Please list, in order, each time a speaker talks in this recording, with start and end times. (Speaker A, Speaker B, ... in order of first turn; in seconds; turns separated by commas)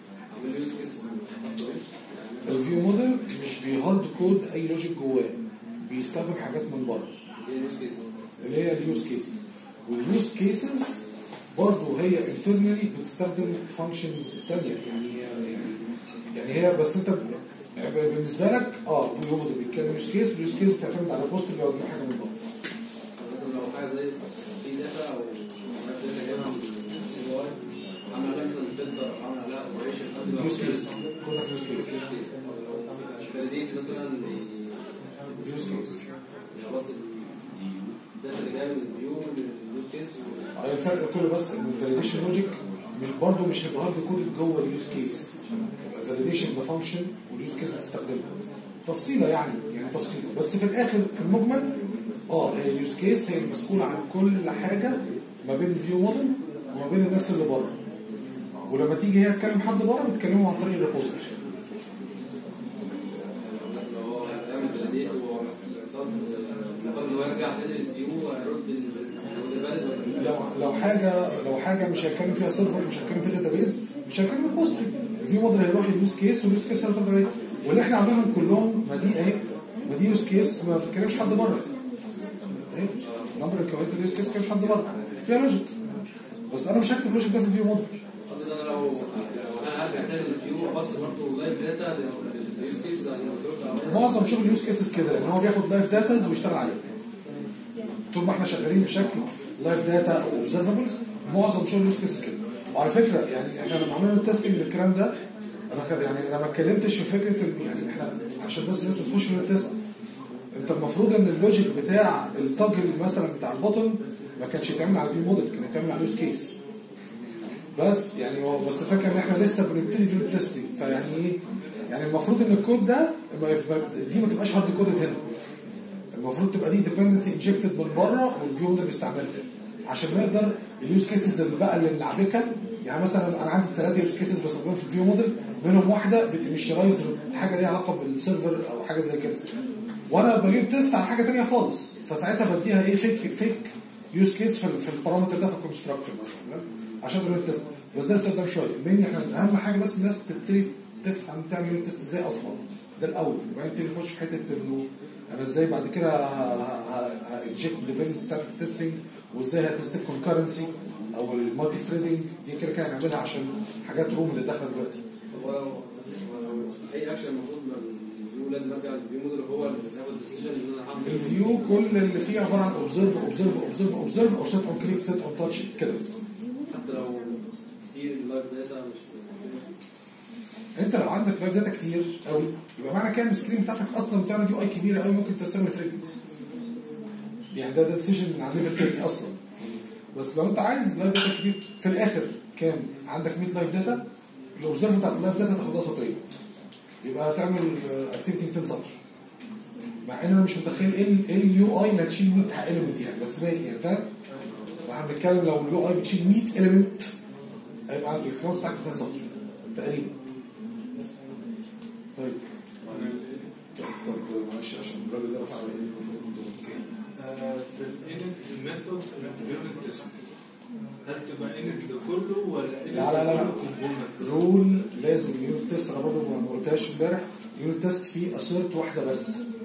Speaker A: 0.3-2.8, Speaker B: 2.4-7.2, Speaker A: 7.4-8.1, Speaker B: 8.4-11.0, Speaker B: 11.5-15.8, Speaker B: 16.3-22.3, Speaker A: 23.2-31.0, Speaker B: 30.3-31.9, Speaker A: 31.8-34.9, Speaker B: 35.4-35.9, Speaker A: 36.5-37.4, Speaker A: 38.1-40.5, Speaker B: 40.5-45.3, Speaker B: 45.9-48.3, Speaker B: 48.8-51.8, Speaker B: 52.3-57.8, Speaker B: 58.7-61.4, Speaker A: 63.4-70.5, Speaker B: 70.1-81.7, Speaker B: 82.6-85.7, Speaker B: 86.5-88.0, Speaker A: 88.3-94.5, Speaker B: 93.8-96.8, Speaker B: 98.1-105.2, Speaker B: 105.7-109.8, Speaker B: 110.5-116.5, Speaker B: 117.8-125.3, Speaker B: 126.1-139.5, Speaker B: 140.1-165.0, Speaker A: 165.3-171.6, Speaker B: 171.0-176.2, Speaker A: 176.7-179.7, Speaker B: 180.7-186.2, Speaker B: 187.5-194.0, Speaker B: 194.6-196.2, Speaker B: 197.0-199.0, Speaker B: 200.0-204.1, Speaker B: 204.8-207.1, Speaker B: 207.9-210.1, Speaker B: 212.2-213.1, Speaker C: 212.9-213.5, Speaker B: 213.8-216.6, Speaker C: 216.6-220.1, Speaker C: 221.0-224.4, Speaker B: 222.9-229.4